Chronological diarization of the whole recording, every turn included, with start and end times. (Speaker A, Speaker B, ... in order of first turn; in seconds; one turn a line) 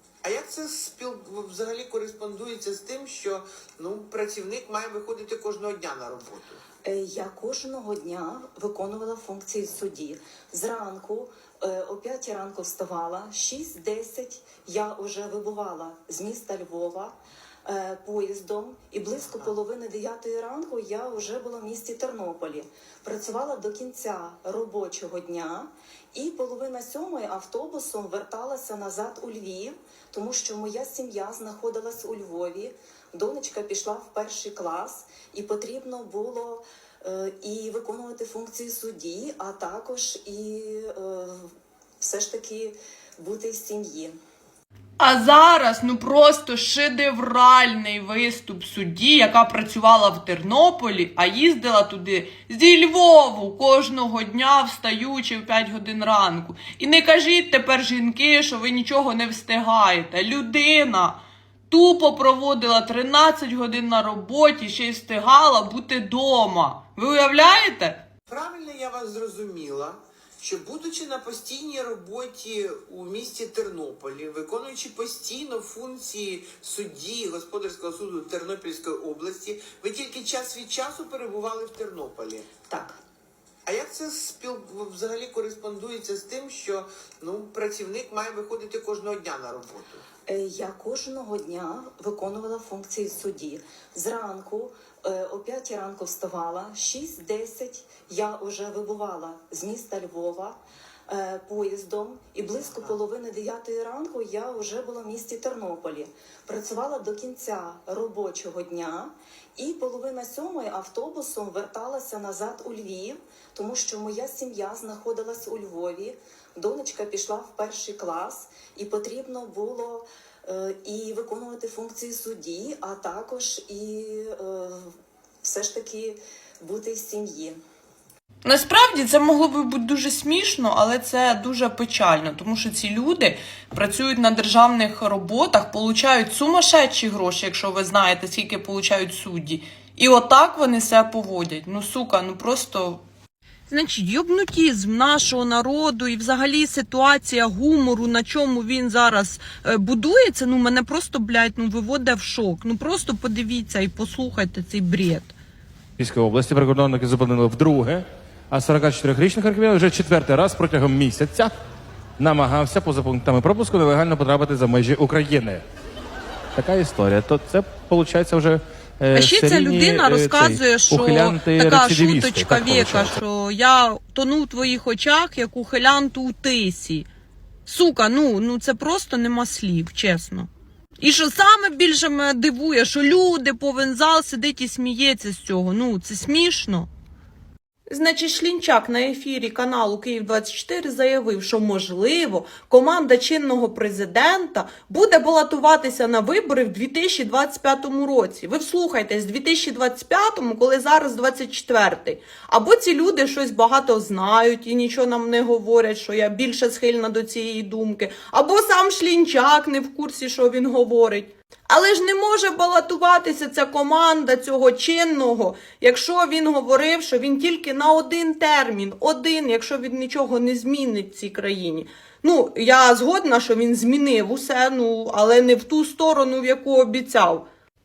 Speaker A: 0.2-6.6
Speaker B: 6.8-44.1
Speaker C: 45.0-68.0
Speaker A: 68.3-82.5
Speaker B: 82.7-83.0
Speaker A: 83.7-90.1
Speaker B: 90.3-127.6
Speaker C: 128.4-143.0
Speaker C: 143.7-155.4
Speaker D: 156.0-161.5
Speaker D: 162.2-165.6
Speaker D: 166.6-173.2
Speaker C: 169.1-177.1
Speaker C: 177.7-180.5
Speaker C: 181.0-186.9
Speaker C: 187.9-227.4